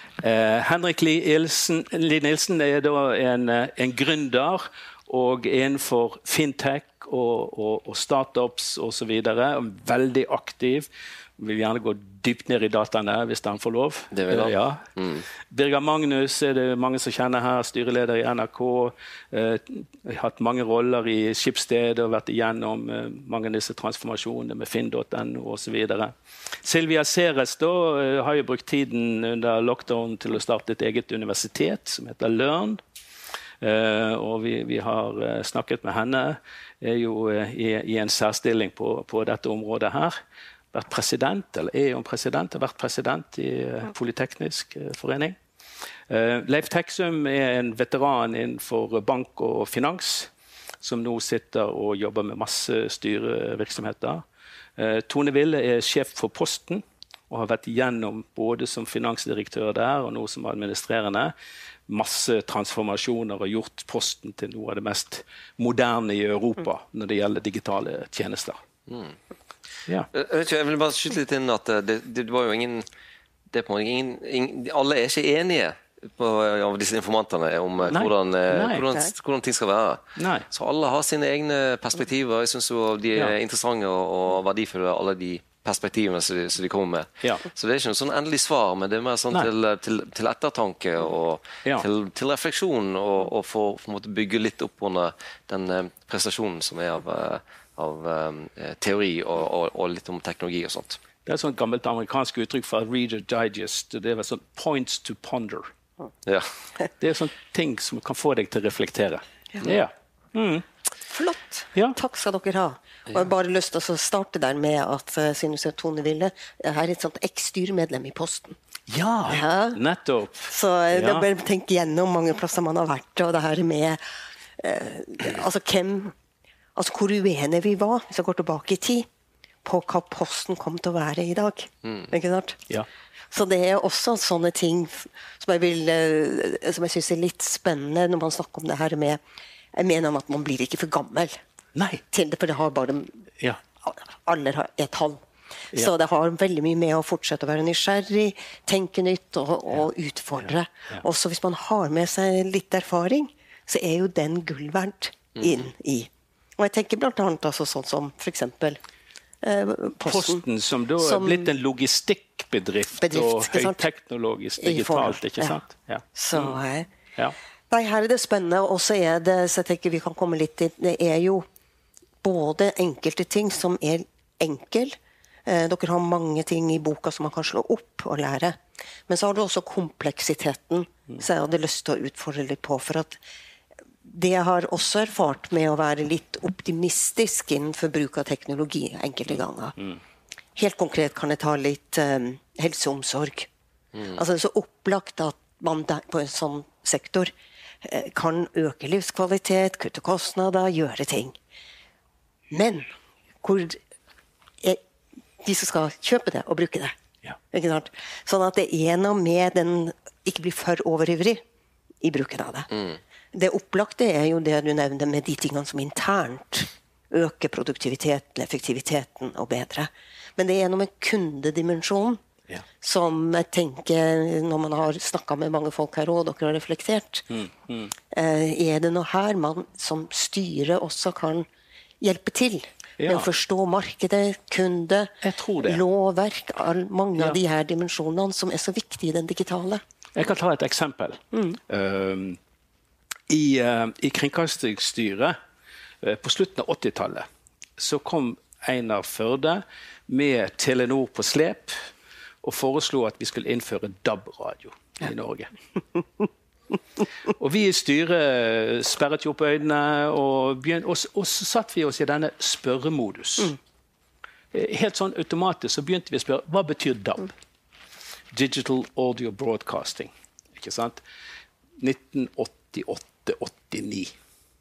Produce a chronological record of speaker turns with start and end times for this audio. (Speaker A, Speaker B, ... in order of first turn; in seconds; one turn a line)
Speaker A: 0.2-14.8
Speaker B: 14.1-15.2
Speaker A: 15.5-32.8
Speaker A: 33.6-40.1
Speaker A: 40.7-45.4
Speaker A: 46.1-50.3
Speaker A: 50.8-54.2
Speaker A: 54.8-61.3
Speaker A: 61.9-68.6
Speaker B: 68.9-69.2
Speaker B: 70.1-72.8
Speaker B: 73.5-101.0
Speaker A: 77.9-78.8
Speaker A: 80.2-80.5
Speaker A: 101.2-105.7
Speaker B: 106.2-106.5
Speaker A: 107.0-110.6
Speaker C: 111.1-118.6
Speaker A: 118.9-121.2
Speaker C: 119.3-119.8
Speaker C: 120.5-124.0
Speaker C: 124.6-126.1
Speaker C: 126.8-129.1
Speaker C: 129.6-132.6
Speaker C: 133.3-139.2
Speaker C: 139.7-141.4
Speaker A: 141.7-142.0
Speaker C: 142.1-143.3
Speaker C: 143.8-158.8
Speaker B: 155.4-155.7
Speaker C: 159.4-160.4
Speaker A: 160.0-166.6
Speaker C: 161.0-161.5
Speaker C: 163.0-163.8
Speaker C: 164.6-165.6
Speaker C: 166.1-166.9
Speaker C: 167.7-171.4
Speaker C: 172.2-183.2
Speaker C: 184.0-189.8
Speaker C: 190.6-193.5
Speaker B: 193.9-194.2
Speaker C: 194.1-197.3
Speaker C: 197.8-201.3
Speaker C: 202.5-202.9
Speaker C: 203.4-203.8
Speaker C: 205.4-206.9
Speaker C: 207.5-211.4
Speaker C: 212.0-222.2
Speaker C: 222.8-227.2
Speaker A: 227.3-227.9
Speaker C: 228.1-231.5
Speaker C: 232.0-239.8
Speaker A: 233.0-233.3
Speaker A: 235.2-235.8
Speaker A: 240.2-242.4
Speaker A: 243.3-245.3
Speaker A: 246.0-247.2
Speaker A: 247.8-251.8
Speaker A: 252.4-255.5
Speaker A: 257.4-263.6
Speaker A: 264.5-267.3
Speaker A: 268.3-271.0
Speaker A: 271.8-274.1